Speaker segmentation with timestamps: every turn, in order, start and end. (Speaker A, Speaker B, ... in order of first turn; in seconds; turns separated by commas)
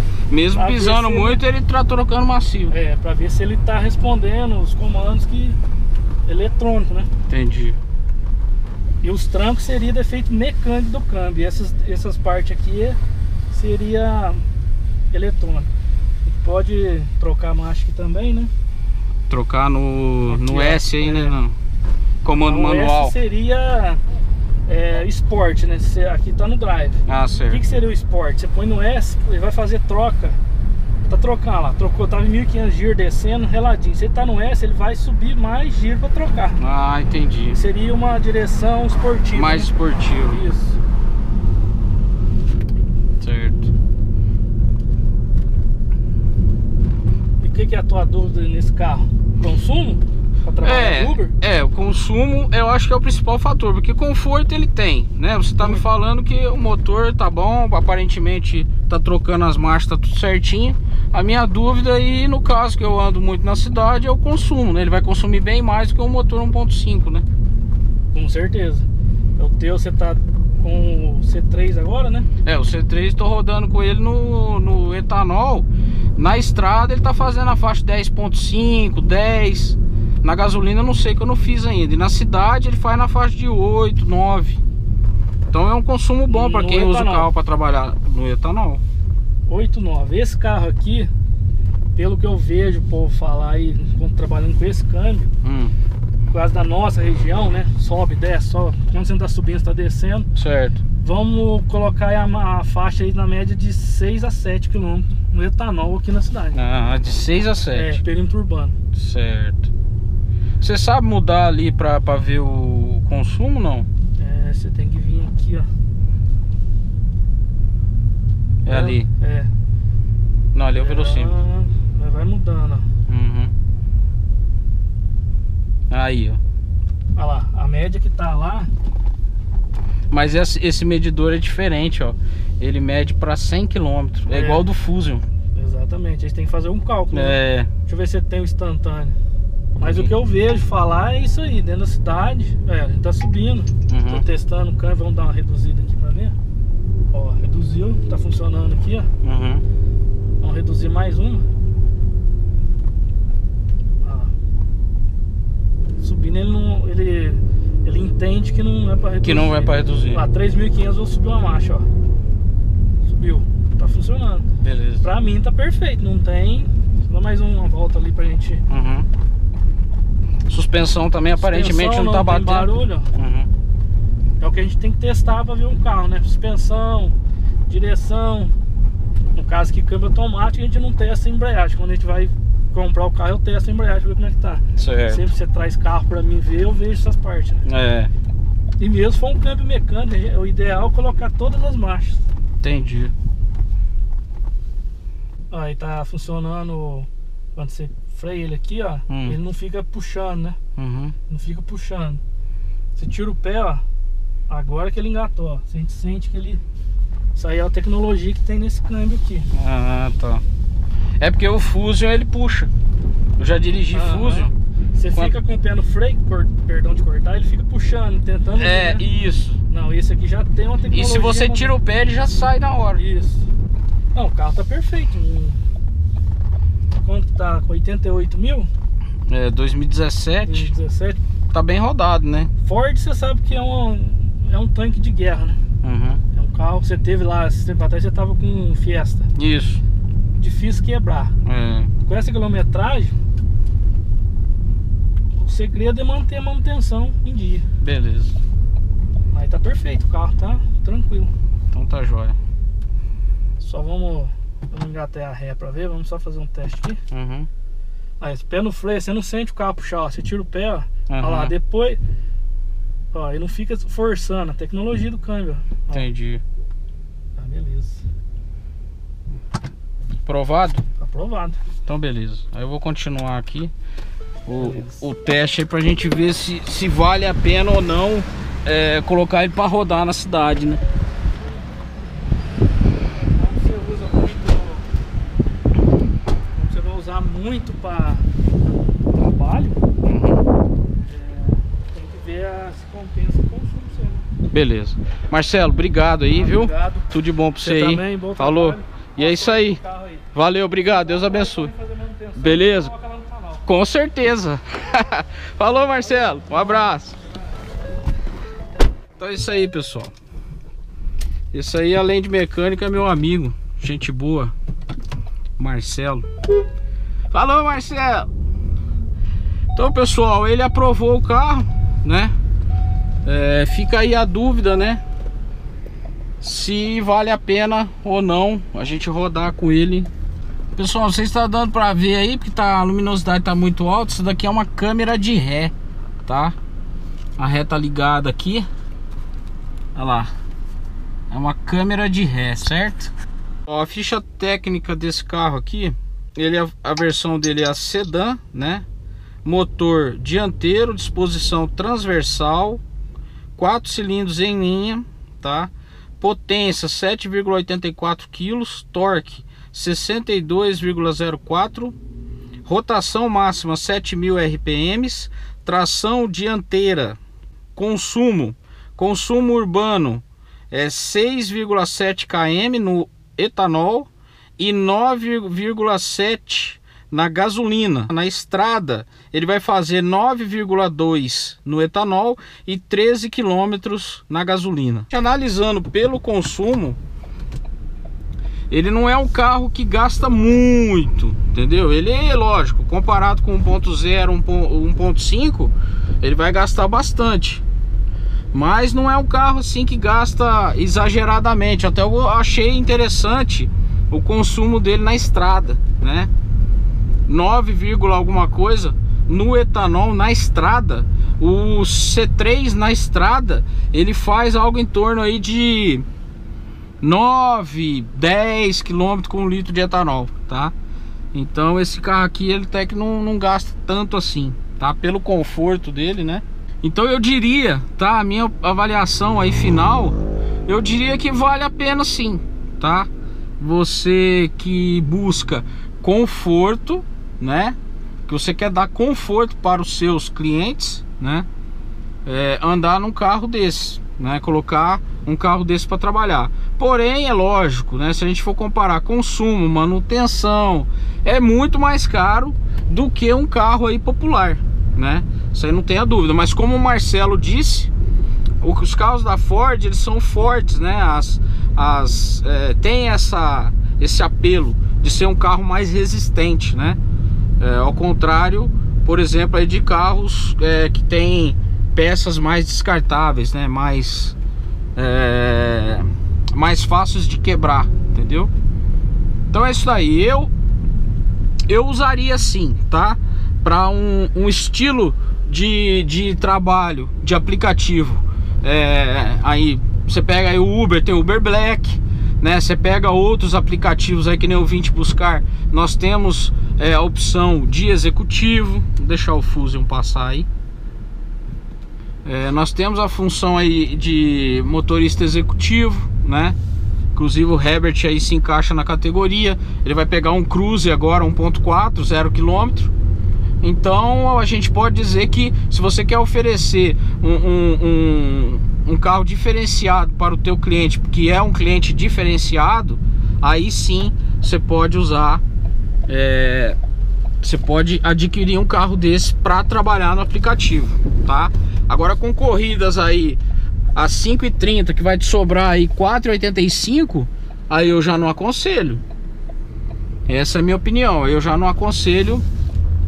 Speaker A: 0.3-2.7, Speaker B: 0.5-1.4, Speaker B: 2.7-5.6, Speaker B: 6.2-7.1, Speaker A: 7.3-7.8, Speaker B: 9.0-13.0, Speaker B: 13.5-14.4, Speaker B: 15.1-15.7, Speaker B: 16.2-18.5, Speaker A: 19.3-21.6, Speaker B: 20.3-21.4, Speaker A: 22.2-23.1, Speaker B: 22.3-24.0, Speaker B: 24.7-30.4, Speaker A: 27.1-27.6, Speaker B: 31.1-36.6, Speaker A: 36.6-37.6, Speaker B: 37.5-40.8, Speaker A: 39.3-40.4, Speaker A: 43.2-43.7, Speaker B: 47.4-51.3, Speaker A: 50.6-67.2, Speaker B: 68.1-68.8, Speaker B: 69.4-72.3, Speaker A: 72.4-84.6, Speaker A: 85.5-88.8, Speaker B: 86.3-87.3, Speaker B: 89.5-91.1, Speaker B: 92.0-95.3, Speaker A: 95.4-95.7, Speaker B: 96.3-100.3, Speaker A: 100.3-100.8, Speaker B: 101.0-106.6, Speaker A: 106.5-108.0, Speaker B: 107.7-108.7, Speaker A: 108.9-109.7, Speaker A: 110.6-113.9, Speaker B: 114.2-115.7, Speaker A: 118.7-119.1, Speaker B: 118.7-119.5, Speaker A: 120.5-121.3, Speaker B: 120.7-122.8, Speaker A: 123.1-123.5, Speaker A: 125.9-126.4, Speaker B: 127.2-128.7, Speaker A: 130.1-135.2, Speaker B: 134.3-134.7, Speaker B: 135.5-139.1, Speaker A: 137.1-137.7, Speaker A: 139.8-140.1, Speaker B: 139.8-146.3, Speaker A: 143.9-144.2, Speaker B: 147.1-149.1, Speaker A: 149.2-149.6, Speaker B: 150.4-151.4, Speaker B: 154.0-154.3, Speaker B: 156.0-161.9, Speaker A: 159.2-160.2, Speaker B: 163.1-164.5, Speaker A: 164.6-165.0, Speaker B: 165.0-168.6, Speaker A: 168.7-169.1, Speaker A: 170.5-173.5, Speaker B: 171.3-173.1, Speaker B: 174.4-178.5, Speaker B: 179.3-187.6, Speaker A: 184.8-185.2, Speaker A: 187.7-188.1, Speaker B: 188.8-192.2, Speaker A: 192.6-193.1, Speaker B: 195.5-200.6, Speaker A: 199.1-199.4, Speaker A: 200.8-201.2, Speaker B: 201.3-202.2, Speaker B: 202.9-203.8, Speaker B: 204.5-206.6, Speaker B: 207.3-209.5, Speaker A: 209.5-210.4, Speaker A: 211.2-212.7, Speaker A: 213.4-214.5, Speaker B: 213.9-219.0, Speaker A: 218.6-219.6, Speaker B: 219.7-221.7, Speaker A: 220.9-223.0, Speaker B: 222.9-223.4, Speaker B: 224.1-225.6, Speaker B: 227.0-228.7, Speaker A: 229.3-230.7, Speaker B: 230.4-231.2, Speaker A: 231.5-232.5, Speaker B: 232.6-235.6, Speaker A: 235.8-236.2, Speaker B: 236.3-239.3, Speaker A: 239.3-239.8, Speaker B: 240.4-241.3, Speaker A: 241.4-241.9, Speaker B: 242.0-243.2, Speaker B: 245.3-247.7, Speaker A: 247.8-248.3, Speaker B: 249.3-251.3, Speaker A: 251.7-252.4, Speaker B: 253.6-257.0, Speaker A: 257.1-257.5, Speaker B: 258.2-262.0, Speaker A: 261.1-261.5, Speaker B: 263.1-266.1, Speaker A: 265.9-266.4, Speaker B: 267.4-268.0, Speaker A: 270.2-270.8, Speaker B: 271.0-271.6, Speaker A: 271.9-273.7, Speaker A: 274.5-280.8, Speaker B: 274.6-275.0, Speaker B: 283.0-284.9, Speaker B: 286.5-288.3, Speaker B: 289.1-289.8, Speaker A: 290.0-290.4, Speaker B: 291.0-294.3, Speaker A: 294.5-299.8, Speaker B: 296.3-297.1, Speaker B: 297.6-300.3, Speaker A: 300.3-301.7, Speaker B: 300.8-303.6, Speaker A: 302.4-302.9, Speaker A: 303.6-307.1, Speaker B: 305.8-307.4, Speaker A: 309.2-310.1, Speaker A: 311.5-314.5, Speaker A: 315.6-316.3, Speaker A: 317.3-318.3, Speaker A: 319.7-322.3, Speaker A: 323.2-325.0, Speaker A: 326.4-330.1, Speaker A: 330.8-335.7, Speaker A: 336.2-336.6, Speaker A: 337.4-338.7, Speaker A: 339.9-340.3, Speaker A: 341.3-343.1, Speaker A: 343.6-348.8, Speaker A: 349.4-352.8, Speaker A: 353.6-361.9, Speaker A: 362.6-367.2, Speaker A: 367.8-387.0, Speaker A: 388.7-397.6, Speaker A: 398.5-406.3, Speaker A: 407.3-416.1, Speaker A: 417.0-420.7, Speaker A: 421.3-441.5, Speaker A: 442.2-457.9, Speaker A: 458.6-467.0, Speaker A: 467.6-474.4, Speaker A: 474.9-478.5, Speaker A: 479.5-480.5, Speaker A: 481.7-500.5, Speaker A: 502.2-506.6, Speaker A: 507.1-512.9, Speaker A: 513.6-525.4, Speaker A: 526.1-526.8, Speaker A: 527.4-533.4, Speaker A: 533.9-539.0, Speaker A: 540.3-542.4